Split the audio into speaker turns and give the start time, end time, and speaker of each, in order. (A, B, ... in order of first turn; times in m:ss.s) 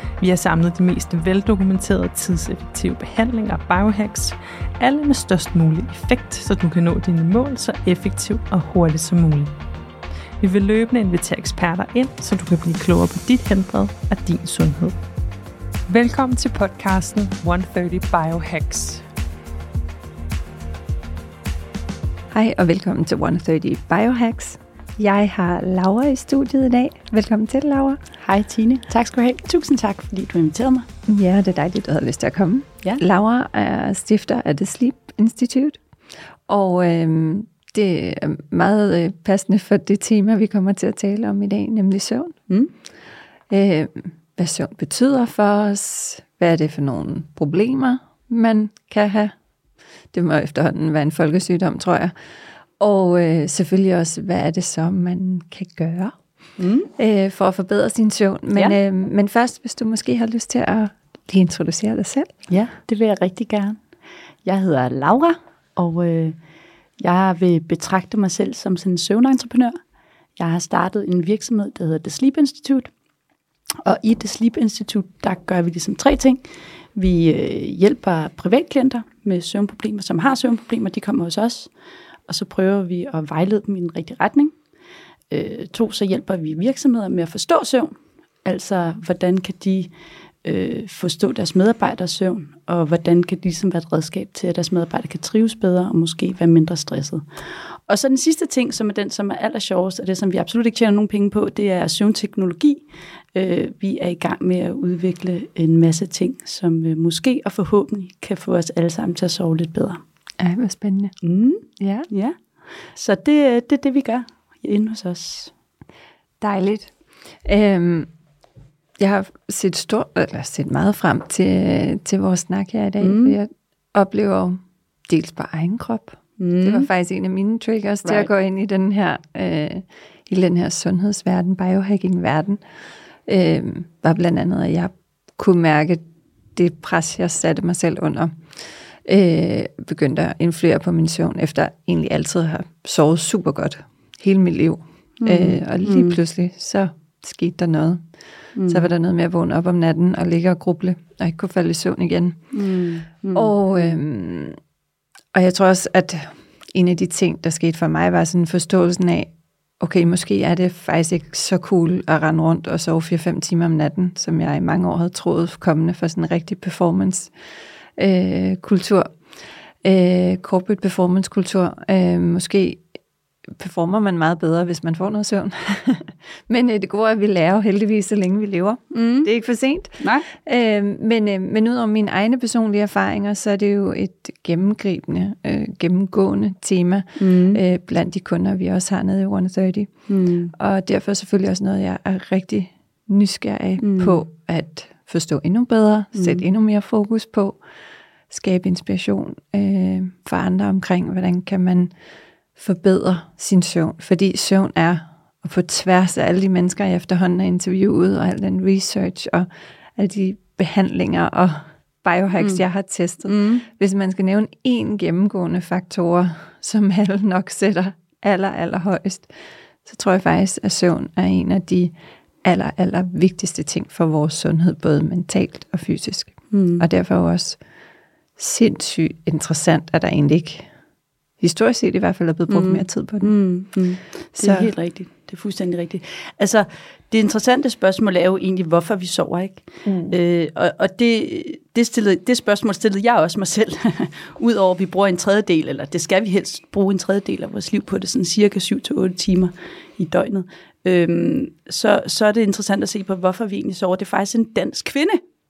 0:00.2-0:09.5 A
0:10.4-0:15.0 A
0:15.9-0:19.0 A
0:22.3-0:28.0 B
0:28.2-0:30.9 C
0:31.1-0:35.8 B
0:36.5-0:42.4 B
0:43.5-0:49.3 B
0:50.1-0:52.1 B
0:52.8-0:56.2 B
0:56.6-0:56.9 C
0:57.0-1:02.3 B
0:58.5-0:58.8 C
1:02.5-1:03.8 C
1:04.4-1:06.4 C
1:07.0-1:09.7 C
1:10.4-1:12.9 C
1:13.8-1:16.4 C
1:16.9-1:21.7 C
1:22.3-1:24.5 C
1:25.3-1:29.9 C
1:30.4-1:37.2 C
1:37.9-1:50.0 C
1:50.4-1:51.1 B
1:51.2-1:52.4 C
1:51.8-1:52.1 B
1:52.9-1:55.5 C
1:56.4-1:58.1 B
1:59.0-2:12.6 B
2:03.0-2:03.4 C
2:06.4-2:06.9 C
2:08.0-2:08.3 C
2:13.3-2:16.0 B
2:16.5-2:32.5 B
2:25.2-2:26.2 C
2:28.6-2:28.9 C
2:32.5-2:33.9 C
2:33.3-2:34.6 B
2:35.3-2:47.3 B
2:48.0-2:49.3 B
2:49.8-2:52.8 B
2:53.6-3:09.9 B
2:58.9-2:59.3 C
3:00.0-3:00.2 C
3:07.2-3:07.6 C
3:10.1-3:10.5 C
3:10.6-3:17.6 B
3:13.8-3:14.2 C
3:16.1-3:16.4 C
3:18.3-3:21.9 B
3:22.6-3:39.3 B
3:33.2-3:33.6 C
3:39.8-3:47.6 B
3:46.5-3:46.8 C
3:48.4-3:50.7 B
3:51.4-3:53.3 B
3:52.5-4:15.2 C
3:54.4-3:54.7 B
3:59.8-4:00.1 B